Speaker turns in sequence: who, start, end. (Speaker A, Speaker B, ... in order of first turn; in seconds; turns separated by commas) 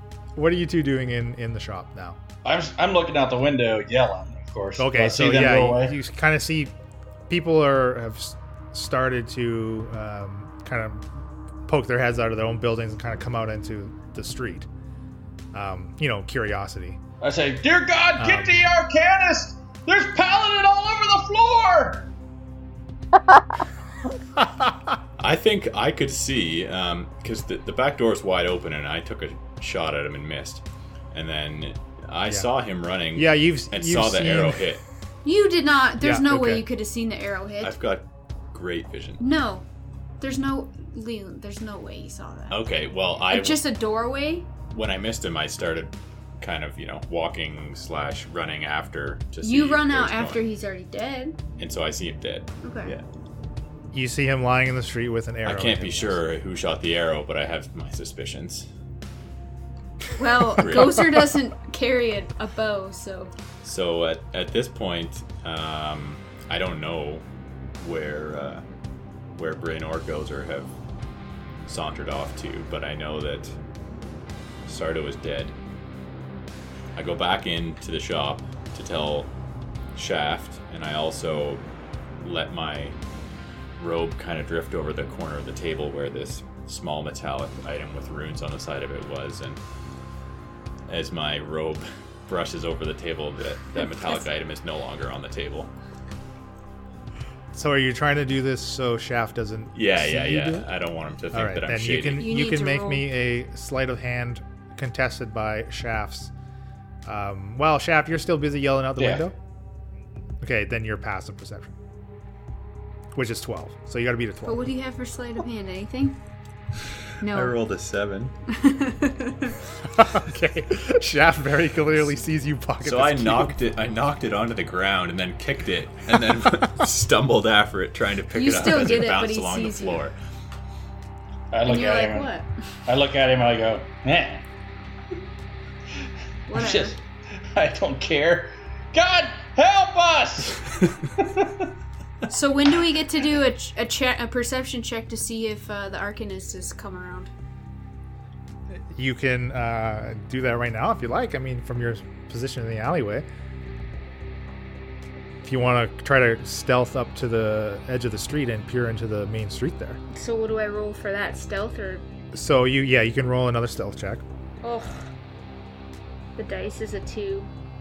Speaker A: 0.4-2.2, Speaker B: 2.4-6.0, Speaker A: 4.8-6.7, Speaker A: 7.3-11.1, Speaker A: 11.7-14.7, Speaker A: 15.5-17.0, Speaker B: 17.2-22.1, Speaker A: 18.2-18.6, Speaker A: 24.4-24.8, Speaker C: 25.2-34.8, Speaker A: 33.1-34.7, Speaker D: 35.2-37.8, Speaker A: 36.0-36.6, Speaker C: 37.6-39.2, Speaker D: 39.2-39.7, Speaker D: 40.2-42.6, Speaker C: 42.5-43.6, Speaker D: 43.3-44.5, Speaker C: 44.7-50.4, Speaker D: 49.4-51.4, Speaker C: 51.6-53.0, Speaker D: 52.6-53.0, Speaker A: 53.9-56.2, Speaker C: 55.5-58.7, Speaker D: 60.2-63.3, Speaker C: 60.5-61.3, Speaker C: 63.6-67.2, Speaker C: 67.8-68.6, Speaker C: 69.4-70.7, Speaker C: 71.7-73.5, Speaker C: 74.7-75.5, Speaker C: 77.0-79.3, Speaker C: 80.0-81.6, Speaker C: 82.2-83.0, Speaker C: 83.8-89.6, Speaker C: 90.9-95.7, Speaker D: 93.8-94.2, Speaker A: 97.5-100.7, Speaker C: 99.8-102.3, Speaker A: 101.3-106.3, Speaker D: 102.2-103.1, Speaker A: 107.1-109.3, Speaker B: 109.0-109.3, Speaker A: 110.4-111.8, Speaker A: 113.2-114.7, Speaker D: 114.5-116.2, Speaker D: 117.2-117.6, Speaker C: 117.2-118.3, Speaker D: 118.5-119.6, Speaker A: 120.0-123.5, Speaker C: 122.8-130.2, Speaker D: 128.3-130.1, Speaker B: 131.5-132.3, Speaker D: 131.6-132.5, Speaker B: 132.9-134.4, Speaker D: 136.5-136.9, Speaker B: 136.5-141.7, Speaker D: 142.3-147.3, Speaker A: 148.9-153.3, Speaker A: 155.4-160.0, Speaker D: 160.1-162.1, Speaker A: 162.3-164.2, Speaker D: 164.6-165.1, Speaker D: 166.4-167.5